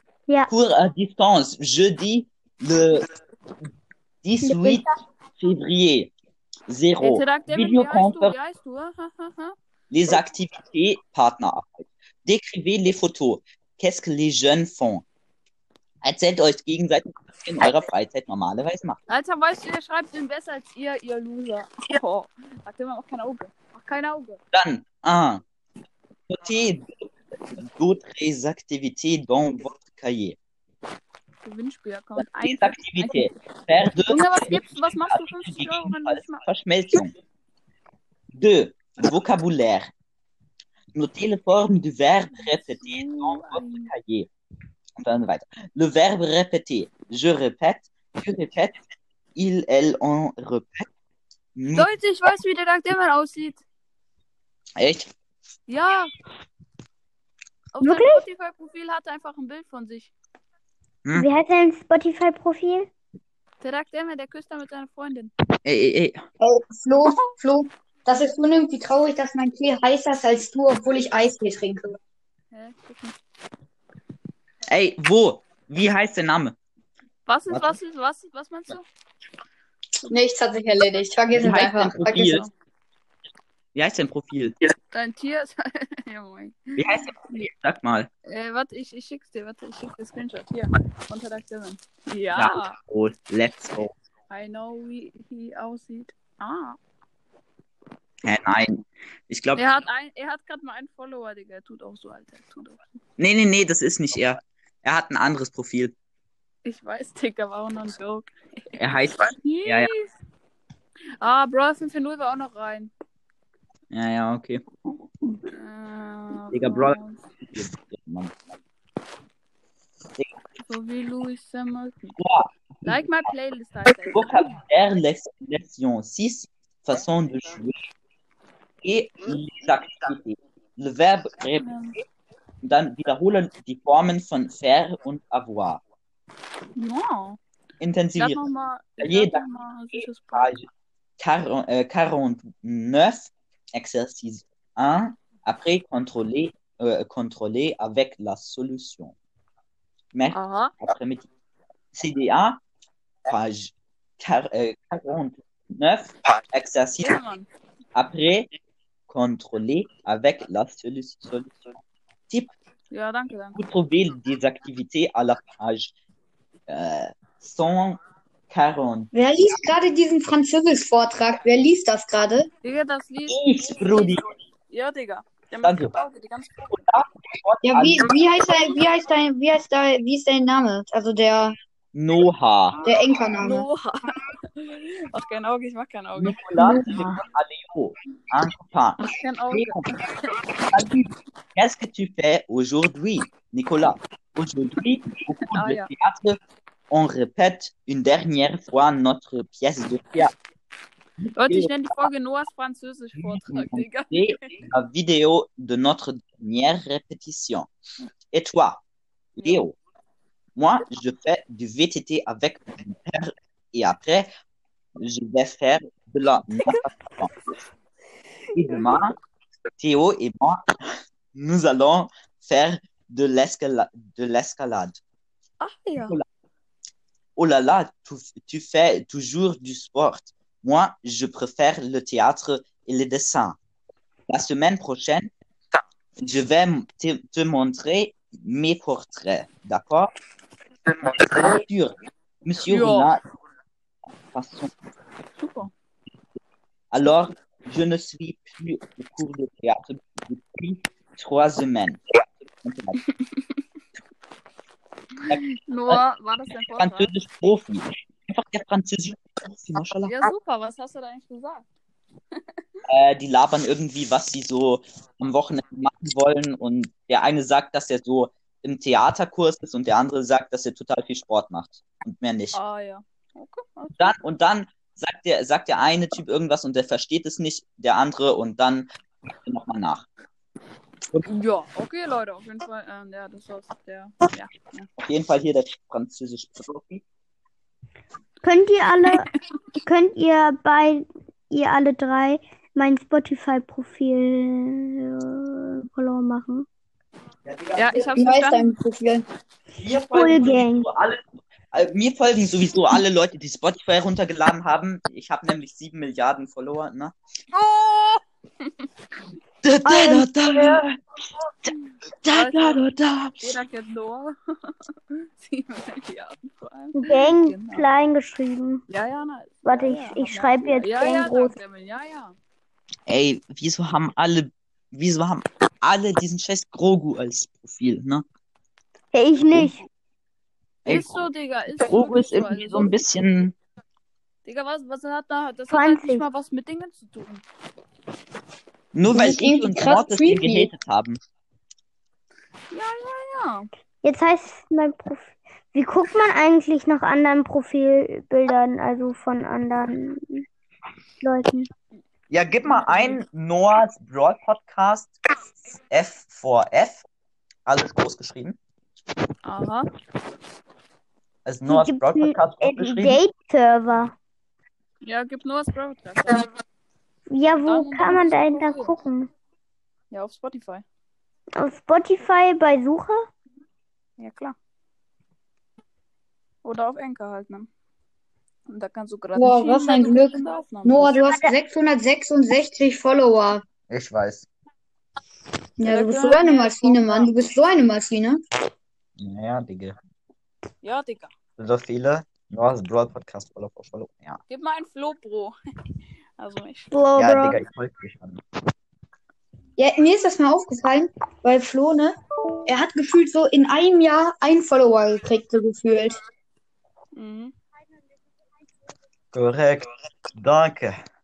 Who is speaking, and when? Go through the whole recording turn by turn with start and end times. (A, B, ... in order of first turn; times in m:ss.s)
0:00.5-0:03.1 A
0:04.2-0:04.9 A
0:04.4-0:04.9 B
0:05.4-0:06.1 A
0:06.7-0:08.3 A
0:07.0-0:09.6 C
0:09.9-0:15.0 A
0:16.0-0:19.0 A
0:19.1-0:24.4 C
0:24.5-0:25.4 A
0:26.3-0:27.0 A
0:27.6-0:30.4 A
0:31.4-0:33.3 C
0:32.2-0:37.1 A
0:34.0-0:36.4 C
0:38.3-0:39.9 A
0:40.9-0:44.3 A
0:42.3-0:43.9 C
0:45.0-0:48.8 A
0:49.3-0:50.9 A
0:51.6-0:51.9 A
0:51.7-0:53.6 C
0:54.8-0:55.1 A
0:55.7-0:56.1 C
0:57.7-1:00.1 C
0:57.8-0:58.2 B
1:01.1-1:02.9 B
1:03.6-1:05.3 C
1:05.6-1:06.2 A
1:06.4-1:11.9 D
1:12.5-1:13.2 C
1:14.7-1:16.6 A
1:17.2-1:18.8 C
1:17.5-1:17.8 A
1:20.1-1:22.4 D
1:21.4-1:22.5 A
1:23.7-1:24.6 A
1:24.9-1:27.0 C
1:26.8-1:28.1 A
1:28.2-1:32.8 C
1:32.3-1:33.9 A
1:34.3-1:36.8 C
1:38.2-1:39.6 A
1:39.6-1:42.9 C
1:43.2-1:45.9 A
1:46.6-1:50.1 C
1:48.7-1:49.9 A
1:51.2-1:52.9 C
1:53.9-1:54.6 A
1:55.5-1:57.2 C
1:56.5-1:58.4 A
2:00.6-2:02.2 C
2:02.2-2:03.1 A
2:02.8-2:04.3 C
2:04.1-2:07.8 A
2:08.8-2:11.8 A
2:11.6-2:12.0 C
2:12.6-2:15.8 A
2:16.8-2:17.4 C
2:17.8-2:18.4 A
2:18.2-2:20.5 C
2:19.0-2:19.4 A
2:19.9-2:20.7 A
2:21.2-2:29.1 A
2:30.1-2:31.2 A
2:30.3-2:30.7 C
2:31.9-2:32.6 A
2:33.2-2:37.2 A
2:37.0-2:37.5 C
2:37.9-2:38.5 A
2:39.1-2:41.6 A
2:42.9-2:43.6 C
2:43.5-2:45.9 A
2:46.7-2:48.0 A
2:48.5-2:49.1 A
2:49.1-2:52.5 D
2:52.6-2:56.7 C
2:53.3-2:54.2 A
2:55.6-2:55.9 A
2:56.7-2:58.1 A
2:57.6-3:01.5 D
3:01.9-3:02.8 A
3:02.8-3:03.6 D
3:03.4-3:06.4 C
3:06.2-3:09.9 A
3:06.6-3:07.1 B
3:09.0-3:10.3 C
3:10.7-3:20.3 A
3:15.5-3:15.9 C
3:21.2-3:21.9 A
3:21.3-3:24.6 C
3:23.2-3:27.7 A
3:28.3-3:28.8 A
3:29.4-3:29.8 A
3:30.6-3:34.3 A
3:35.0-3:37.3 A
3:38.5-3:39.1 A
3:38.6-3:39.0 C
3:39.8-3:40.7 A
3:41.3-3:45.0 A
3:45.6-3:46.2 C
3:47.4-3:53.6 A
3:54.3-3:55.3 A
3:56.2-4:00.1 A
4:01.0-4:03.2 A
4:02.7-4:03.1 C
4:04.3-4:04.7 A
4:05.4-4:05.7 C
4:06.9-4:13.0 A
4:15.2-4:17.1 C
4:15.3-4:16.0 A
4:16.8-4:20.2 A
4:20.1-4:21.7 C
4:22.9-4:32.6 A
4:32.5-4:34.1 C
4:34.0-4:38.9 A
4:39.4-4:40.1 A
4:41.2-4:44.9 C
4:45.0-4:47.0 A
4:48.4-4:49.3 B
4:49.8-4:56.6 B
4:57.4-4:58.1 A
4:57.7-4:58.7 C
4:57.9-4:59.2 D
4:59.8-5:07.1 A
5:00.1-5:00.8 B
5:07.5-5:08.2 C
5:09.6-5:11.0 A
5:09.8-5:10.8 B
5:11.9-5:12.8 C
5:12.2-5:13.4 A
5:13.4-5:17.8 C
5:17.0-5:18.8 B
5:18.9-5:22.3 C
5:19.6-5:21.6 B
5:23.1-5:28.2 A
5:29.1-5:29.8 B
5:30.8-5:33.5 A
5:30.9-5:33.0 C
5:34.4-5:37.4 C
5:35.7-5:36.2 B
5:38.9-5:41.2 A
5:39.1-5:40.7 D
5:42.7-5:43.7 C
5:44.0-5:50.4 B
5:51.2-5:51.7 B
5:52.3-5:55.2 A
5:52.6-5:53.2 C
5:55.9-5:57.0 A
5:57.6-5:58.6 A
5:59.4-5:59.9 C
6:01.4-6:03.2 A
6:01.7-6:04.1 B
6:05.0-6:06.4 C
6:07.3-6:09.3 B
6:07.6-6:08.9 C
6:10.1-6:10.8 C
6:11.6-6:13.3 B
6:14.2-6:14.5 C
6:16.6-6:17.7 C
6:18.7-6:21.2 C
6:19.4-6:23.6 D
6:23.9-6:24.5 A
6:25.8-6:28.4 D
6:25.8-6:27.3 C
6:29.2-6:30.0 A
6:30.8-6:31.3 C
6:31.6-6:34.4 A
6:34.5-6:35.5 C
6:36.4-6:37.0 C
6:36.9-6:37.6 B
6:37.2-6:38.4 A
6:39.8-6:46.2 D
6:47.1-6:47.5 C
6:49.3-6:51.0 A